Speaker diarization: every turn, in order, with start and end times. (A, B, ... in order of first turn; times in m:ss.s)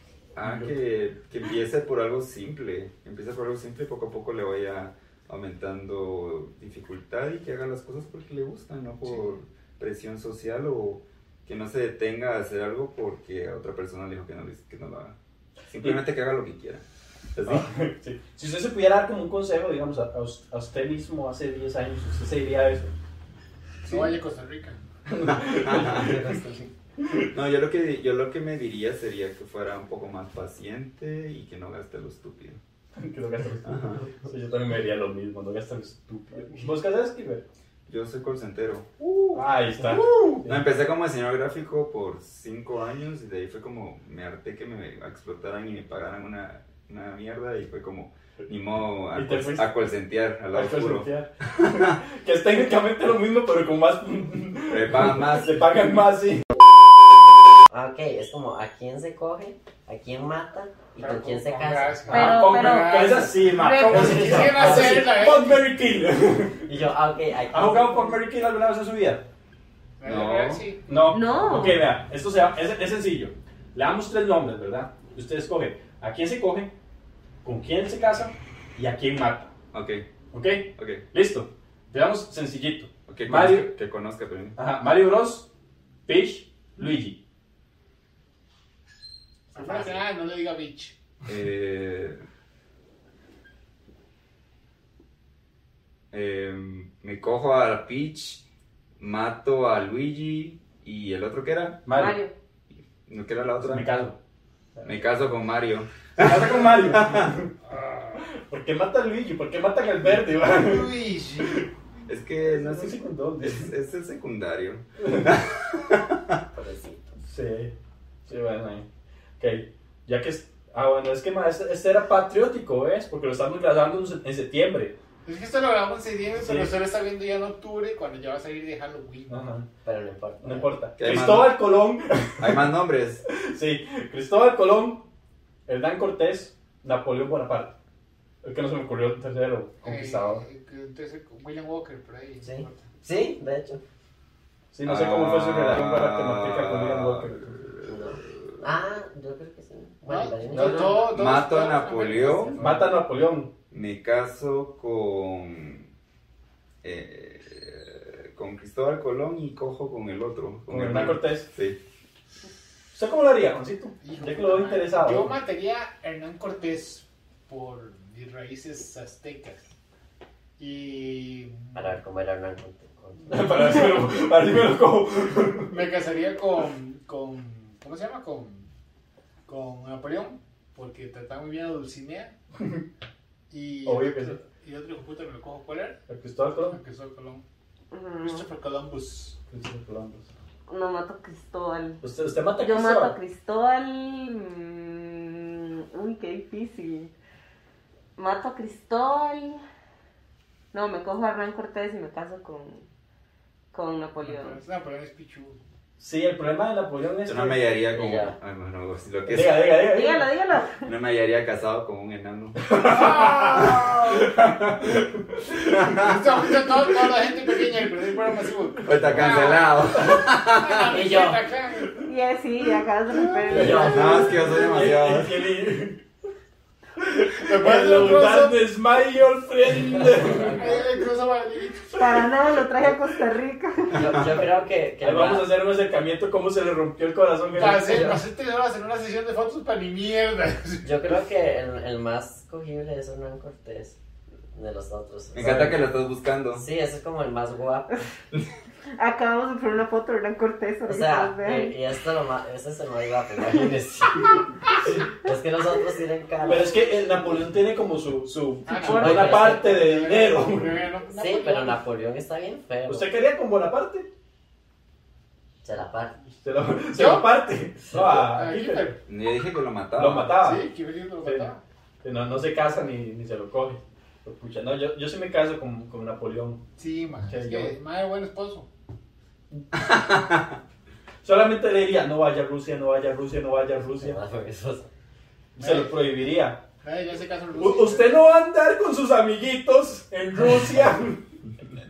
0:00.3-0:15.2 A
0:00.4-0:00.7 B
0:15.7-0:16.8 A
0:17.3-0:17.7 A
0:17.4-0:22.9 B
0:23.8-0:24.8 C
0:25.1-0:26.4 B
0:25.2-0:26.3 A
0:27.2-0:32.6 A
0:33.0-0:37.4 B
0:33.6-0:34.0 A
0:37.9-0:52.0 A
0:39.3-0:40.6 B
0:49.1-0:49.7 B
0:50.5-0:56.5 B
0:54.7-0:55.6 A
0:57.7-1:02.0 D
1:01.0-1:05.7 C
1:02.1-1:06.7 B
1:02.1-1:04.8 E
1:04.1-1:05.1 D
1:06.6-1:08.2 D
1:07.5-1:09.2 B
1:10.0-1:10.8 C
1:10.0-1:10.6 A
1:10.9-1:16.7 B
1:11.1-1:11.8 E
1:17.4-1:19.5 B
1:19.7-1:20.0 A
1:20.3-1:23.7 B
1:20.8-1:21.0 A
1:23.1-1:24.6 A
1:24.6-1:25.5 B
1:26.0-1:27.2 B
1:29.5-1:31.0 C
1:29.6-1:30.0 D
1:31.2-1:32.2 A
1:36.1-1:38.4 A
1:39.0-1:41.8 A
1:41.8-1:42.2 B
1:41.9-1:42.3 E
1:43.0-1:43.9 A
1:43.6-1:44.2 B
1:44.8-1:47.3 A
1:46.2-1:47.5 B
1:47.6-1:48.2 C
1:48.2-1:51.7 B
1:50.1-1:51.6 C
1:52.1-1:56.4 A
1:52.5-1:53.7 B
1:55.0-1:55.3 B
1:56.5-1:57.1 D
1:57.2-1:57.7 B
1:58.2-1:58.9 B
1:59.4-2:04.9 B
2:05.2-2:09.5 C
2:06.4-2:06.7 B
2:09.3-2:09.7 B
2:09.8-2:10.7 D
2:10.4-2:12.7 B
2:11.0-2:11.7 A
2:12.4-2:13.2 A
2:13.2-2:15.0 B
2:15.7-2:17.8 B
2:18.4-2:20.4 B
2:19.8-2:22.9 C
2:22.4-2:23.8 D
2:24.7-2:27.6 B
2:24.8-2:28.2 A
2:27.8-2:31.3 D
2:30.1-2:32.6 C
2:30.5-2:30.9 B
2:30.9-2:32.8 A
2:32.1-2:32.7 D
2:32.6-2:33.5 B
2:33.7-2:35.9 A
2:36.8-2:41.8 A
2:40.7-2:41.5 B
2:42.9-2:45.3 B
2:44.0-2:49.7 C
2:50.6-2:51.9 C
2:51.7-2:54.0 D
2:53.3-2:55.9 B
2:55.6-2:58.7 C
2:59.4-3:02.3 C
3:02.6-3:02.8 B
3:03.5-3:06.0 C
3:03.8-3:04.4 B
3:06.1-3:06.8 B
3:06.6-3:07.4 C
3:07.9-3:08.4 E
3:08.2-3:09.4 C
3:09.5-3:10.3 B
3:10.7-3:12.0 E
3:12.0-3:13.2 B
3:12.6-3:17.1 E
3:18.2-3:19.6 E
3:20.7-3:22.8 E
3:23.7-3:24.6 E
3:24.2-3:25.6 C
3:26.0-3:27.6 B
3:27.2-3:29.6 A
3:27.9-3:28.3 D
3:29.3-3:30.3 B
3:29.7-3:30.9 E
3:30.8-3:34.9 A
3:32.6-3:34.5 B
3:32.8-3:34.2 C
3:35.3-3:36.0 B
3:35.7-3:36.3 A
3:35.9-3:42.1 C
3:38.8-3:41.0 A
3:38.9-3:39.4 B
3:39.9-3:40.2 B
3:40.8-3:41.4 D
3:42.0-3:44.3 E
3:43.5-3:46.0 B
3:43.5-3:44.3 D
3:43.6-3:45.4 A
3:47.0-3:50.6 B
3:47.4-3:48.6 C
3:49.7-3:50.9 D
3:50.3-3:52.0 C
3:51.9-3:54.2 E
3:53.9-3:55.5 D
3:55.0-3:58.2 B
3:57.5-4:01.1 C
3:57.6-3:58.2 D
4:00.8-4:04.0 D
4:04.5-4:05.9 D
4:05.3-4:06.6 A
4:05.4-4:05.7 B
4:06.5-4:08.0 D
4:09.0-4:11.8 E
4:10.9-4:16.7 D
4:16.4-4:20.9 B
4:18.6-4:21.8 C
4:18.8-4:19.8 D
4:21.1-4:23.1 D
4:22.9-4:24.1 B
4:25.6-4:26.2 D
4:26.4-4:28.9 B
4:26.9-4:27.4 C
4:27.9-4:29.0 C
4:29.1-4:30.3 A
4:30.0-4:30.7 B
4:30.3-4:31.6 C
4:31.2-4:31.5 B
4:32.0-4:36.6 B
4:36.8-4:38.7 C
4:37.3-4:37.8 B
4:39.8-4:40.5 A
4:41.2-4:44.2 B
4:43.9-4:44.9 D
4:45.6-4:46.0 C
4:45.6-4:46.6 B
4:46.8-4:48.2 C
4:47.6-4:51.2 B